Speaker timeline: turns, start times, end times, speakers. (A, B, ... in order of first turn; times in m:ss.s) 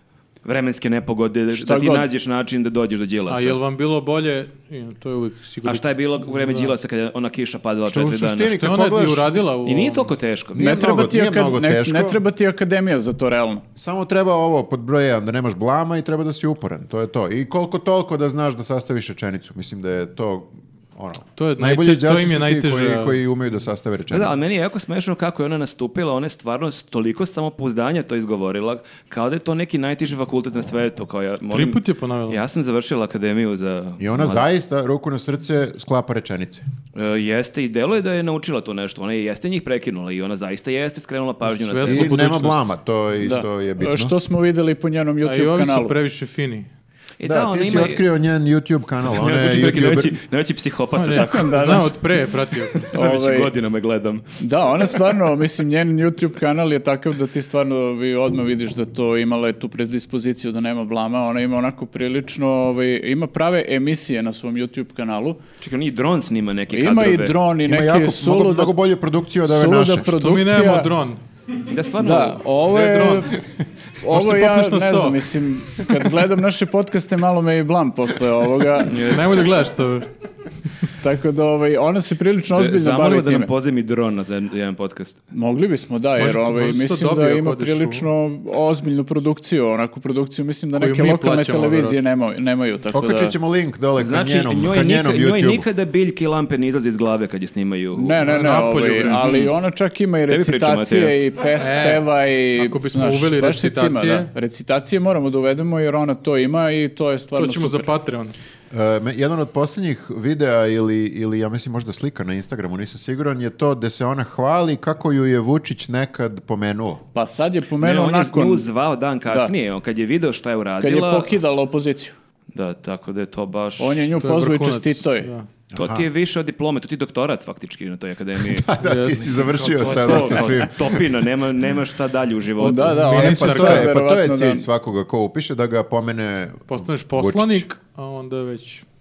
0:00.4-0:03.6 A
0:01.5-0:02.1 B
0:03.3-0:06.7 C
0:05.6-0:08.6 A
0:07.9-0:09.4 D
0:08.6-0:10.1 C
0:09.6-0:10.9 A
0:10.6-0:12.2 D
0:10.6-0:13.6 B
0:13.8-0:24.4 D
0:21.4-0:23.2 C
0:24.1-0:34.5 A
0:31.5-0:32.4 C
0:34.0-0:36.6 D
0:37.0-0:42.3 A
0:41.4-0:42.7 C
0:41.8-0:44.1 D
0:43.2-0:46.0 B
0:45.2-0:46.7 C
0:47.2-0:48.0 A
0:47.2-0:50.2 D
0:49.0-0:51.9 A
0:51.0-0:52.8 C
0:51.1-0:52.0 B
0:52.6-0:54.4 A
0:52.9-0:53.5 B
0:54.4-1:05.4 B
1:05.6-1:07.4 A
1:06.7-1:08.8 B
1:07.6-1:10.2 D
1:09.4-1:10.9 B
1:10.2-1:11.2 C
1:11.7-1:12.5 A
1:12.0-1:13.4 B
1:12.7-1:13.2 C
1:14.0-1:19.1 B
1:14.1-1:15.2 C
1:18.9-1:19.4 A
1:19.0-1:20.1 C
1:21.0-1:23.5 B
1:22.5-1:25.2 A
1:25.3-1:33.4 B
1:26.2-1:28.1 C
1:30.8-1:32.0 C
1:32.9-1:35.7 D
1:34.0-1:38.2 A
1:38.0-1:47.9 B
1:38.2-1:39.5 C
1:40.3-1:41.2 A
1:41.6-1:42.0 C
1:42.6-1:44.3 C
1:47.4-1:48.4 C
1:48.7-1:57.0 D
1:57.1-1:58.7 B
1:57.8-2:01.4 A
1:59.3-1:59.5 B
2:00.8-2:02.2 B
2:02.5-2:04.1 A
2:03.8-2:05.3 B
2:04.2-2:05.5 C
2:05.7-2:06.1 D
2:05.8-2:08.7 A
2:08.5-2:11.0 D
2:08.8-2:10.6 C
2:09.8-2:13.0 A
2:12.6-2:13.9 C
2:12.6-2:14.7 B
2:13.1-2:17.7 D
2:16.7-2:18.8 C